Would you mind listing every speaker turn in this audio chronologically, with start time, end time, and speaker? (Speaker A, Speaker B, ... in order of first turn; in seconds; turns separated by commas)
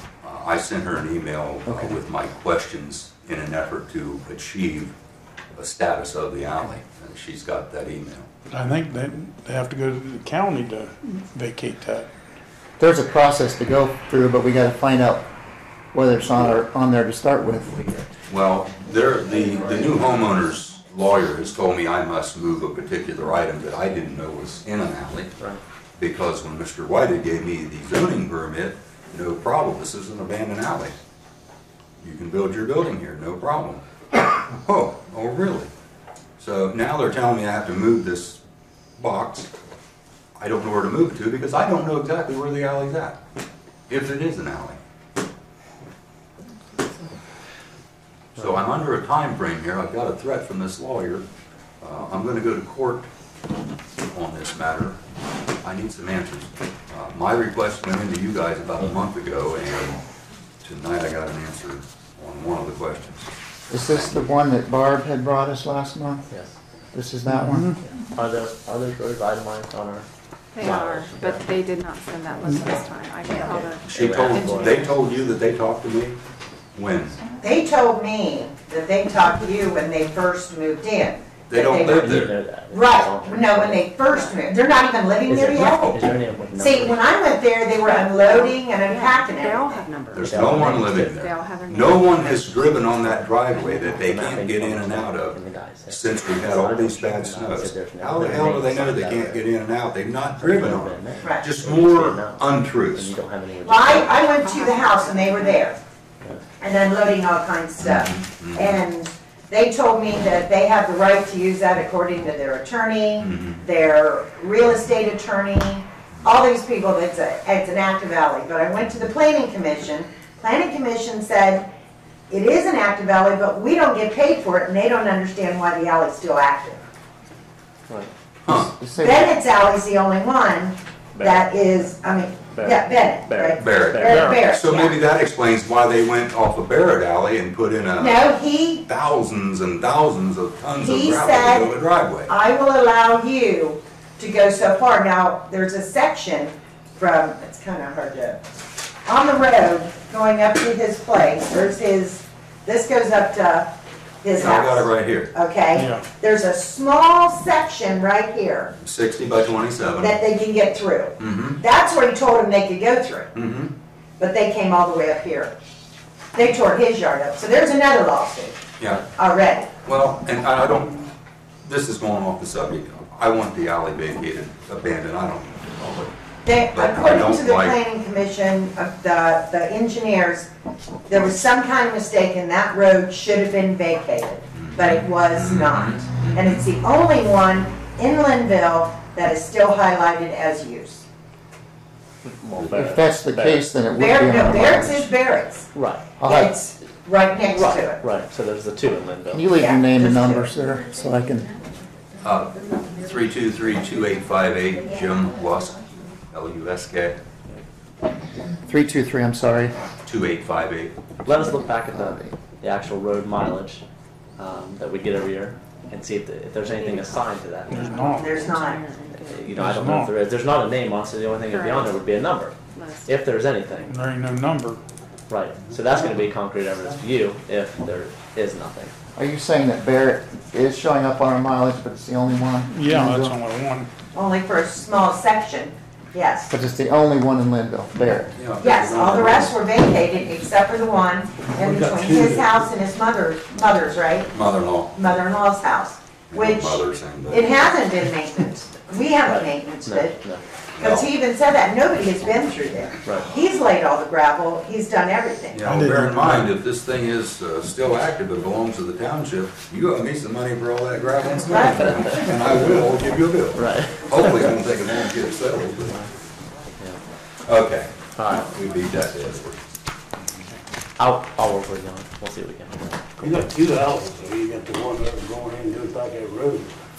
Speaker A: 0.2-5.0, Speaker B: 1.7-2.0, Speaker A: 5.6-8.3, Speaker C: 8.5-12.1, Speaker B: 12.8-15.3, Speaker B: 15.9-17.8, Speaker A: 18.3-25.3, Speaker A: 26.0-30.9, Speaker A: 32.0-35.7, Speaker A: 36.4-38.4, Speaker A: 39.0-39.5, Speaker A: 40.4-43.2, Speaker A: 43.9-44.8, Speaker A: 48.4-51.2, Speaker A: 51.8-53.1, Speaker A: 54.1-55.0, Speaker A: 55.6-60.0, Speaker A: 60.6-64.2, Speaker B: 63.7-66.3, Speaker D: 66.3-66.6, Speaker B: 66.9-67.8, Speaker C: 67.3-67.8, Speaker D: 67.8-71.5, Speaker E: 70.5-75.1, Speaker D: 73.3-74.9, Speaker A: 73.3-76.2, Speaker A: 76.7-77.2, Speaker F: 77.4-82.1, Speaker A: 81.5-82.4, Speaker D: 81.9-83.9, Speaker F: 82.7-86.0, Speaker E: 84.0-84.5, Speaker D: 85.3-87.0, Speaker A: 85.5-86.2, Speaker F: 86.6-89.8, Speaker E: 87.8-93.0, Speaker A: 90.1-103.2, Speaker D: 90.2-91.1, Speaker D: 92.6-99.5, Speaker E: 93.5-93.8, Speaker D: 100.3-104.3, Speaker F: 101.2-101.5, Speaker F: 103.6-105.8, Speaker E: 104.0-105.7, Speaker F: 106.6-121.7, Speaker A: 107.8-108.8, Speaker A: 113.2-113.6, Speaker F: 122.3-126.8, Speaker A: 128.5-128.7, Speaker B: 128.5-129.4, Speaker F: 129.0-135.0, Speaker D: 131.1-131.9, Speaker D: 132.5-134.3, Speaker A: 133.6-138.3, Speaker C: 134.1-134.4, Speaker F: 138.0-138.8, Speaker A: 138.9-142.3, Speaker F: 140.8-141.7, Speaker F: 142.3-148.4, Speaker F: 149.1-158.7, Speaker A: 154.3-155.3, Speaker C: 155.7-156.1, Speaker A: 158.8-160.2, Speaker F: 160.0-163.3, Speaker A: 161.2-161.6, Speaker A: 163.3-163.7, Speaker F: 164.2-165.6, Speaker F: 166.3-169.7, Speaker A: 168.8-169.1, Speaker A: 169.8-171.1, Speaker A: 171.6-176.1, Speaker F: 176.4-180.5, Speaker A: 176.7-177.8, Speaker F: 181.1-191.1, Speaker A: 184.5-186.6, Speaker D: 192.2-193.7, Speaker B: 192.6-195.1, Speaker F: 194.0-195.7, Speaker D: 195.7-196.1, Speaker B: 196.2-196.6, Speaker F: 196.2-198.0, Speaker D: 197.4-199.5, Speaker B: 199.3-201.5, Speaker F: 199.6-200.5, Speaker A: 202.2-207.2, Speaker B: 208.6-209.7, Speaker A: 210.1-210.9, Speaker D: 211.2-213.8, Speaker B: 211.9-212.3, Speaker D: 214.4-218.1, Speaker E: 216.7-219.5, Speaker C: 217.7-218.4, Speaker F: 218.1-218.8, Speaker D: 219.2-223.9, Speaker C: 219.5-220.1, Speaker E: 221.4-222.1, Speaker E: 222.7-223.1, Speaker C: 223.9-224.8, Speaker D: 225.3-228.9, Speaker B: 229.2-233.4, Speaker C: 232.7-233.9, Speaker F: 234.2-236.5, Speaker B: 236.5-238.4, Speaker A: 238.3-239.6, Speaker F: 238.6-244.3, Speaker G: 241.5-242.7, Speaker A: 244.3-245.1, Speaker F: 244.9-250.2, Speaker A: 246.3-247.9, Speaker D: 249.2-250.4, Speaker A: 250.8-251.1, Speaker F: 250.8-255.6, Speaker A: 255.5-266.0, Speaker C: 255.6-256.5, Speaker F: 261.4-262.1, Speaker D: 263.5-264.4, Speaker A: 267.4-269.6, Speaker D: 268.2-268.5, Speaker D: 271.0-273.4, Speaker G: 273.2-276.8